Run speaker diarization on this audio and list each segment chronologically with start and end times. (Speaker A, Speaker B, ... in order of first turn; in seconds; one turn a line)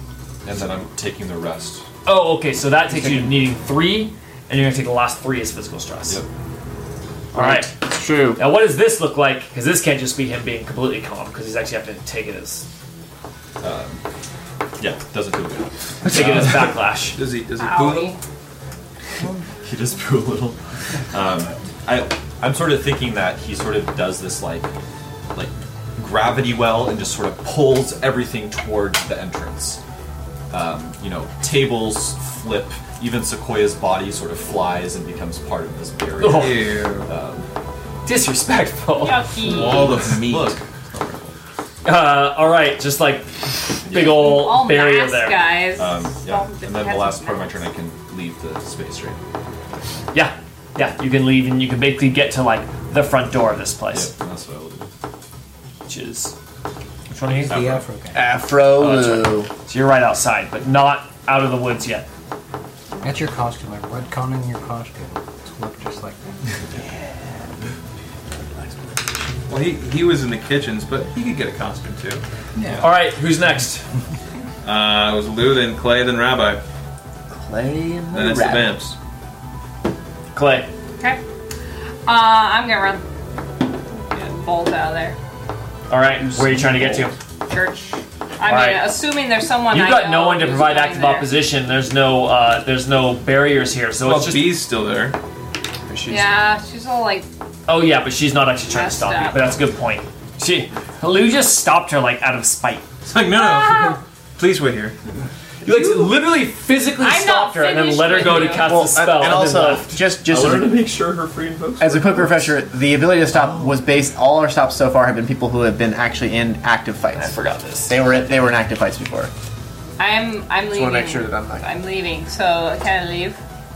Speaker A: 0.4-1.9
Speaker B: 2.0-6.2
Speaker C: 2.9-3.4
Speaker C: 7.3-8.4
Speaker B: 7.3-12.6
Speaker A: 13.6-14.0
Speaker A: 14.8-16.7
Speaker B: 16.0-17.2
Speaker D: 17.1-18.1
Speaker E: 17.6-18.2
Speaker A: 19.6-20.6
Speaker A: 21.1-24.7
Speaker A: 25.3-29.8
Speaker A: 30.5-37.4
Speaker B: 36.2-36.7
Speaker D: 36.2-37.1
Speaker B: 38.0-39.2
Speaker E: 38.9-40.0
Speaker A: 39.4-41.3
Speaker D: 39.5-40.6
Speaker B: 41.8-45.5
Speaker A: 43.9-44.2
Speaker E: 43.9-47.7
Speaker A: 45.8-49.2
Speaker B: 50.1-54.1
Speaker A: 53.9-54.9
Speaker B: 55.9-56.3
Speaker B: 57.1-57.7
Speaker F: 57.4-58.2
Speaker A: 57.4-57.8
Speaker C: 58.1-59.5
Speaker B: 58.8-62.0
Speaker F: 63.0-66.2
Speaker D: 69.5-72.2
Speaker A: 72.6-72.8
Speaker B: 72.8-73.8
Speaker D: 74.6-76.6
Speaker C: 77.3-78.8
Speaker D: 78.1-78.9
Speaker B: 80.3-80.7
Speaker E: 82.0-83.0
Speaker E: 83.9-85.2
Speaker B: 85.9-87.2
Speaker C: 86.3-87.1
Speaker E: 87.5-91.3
Speaker B: 88.4-88.9
Speaker B: 89.7-94.5
Speaker D: 94.0-95.2
Speaker D: 95.9-96.3
Speaker E: 96.1-97.3
Speaker B: 97.7-102.9
Speaker E: 98.7-99.5
Speaker D: 103.0-104.9
Speaker E: 103.3-104.0
Speaker B: 105.6-110.0
Speaker E: 107.0-108.8
Speaker C: 108.5-110.9
Speaker A: 110.2-112.5
Speaker C: 111.8-119.3
Speaker B: 117.1-118.0
Speaker E: 120.0-123.4
Speaker C: 120.7-121.7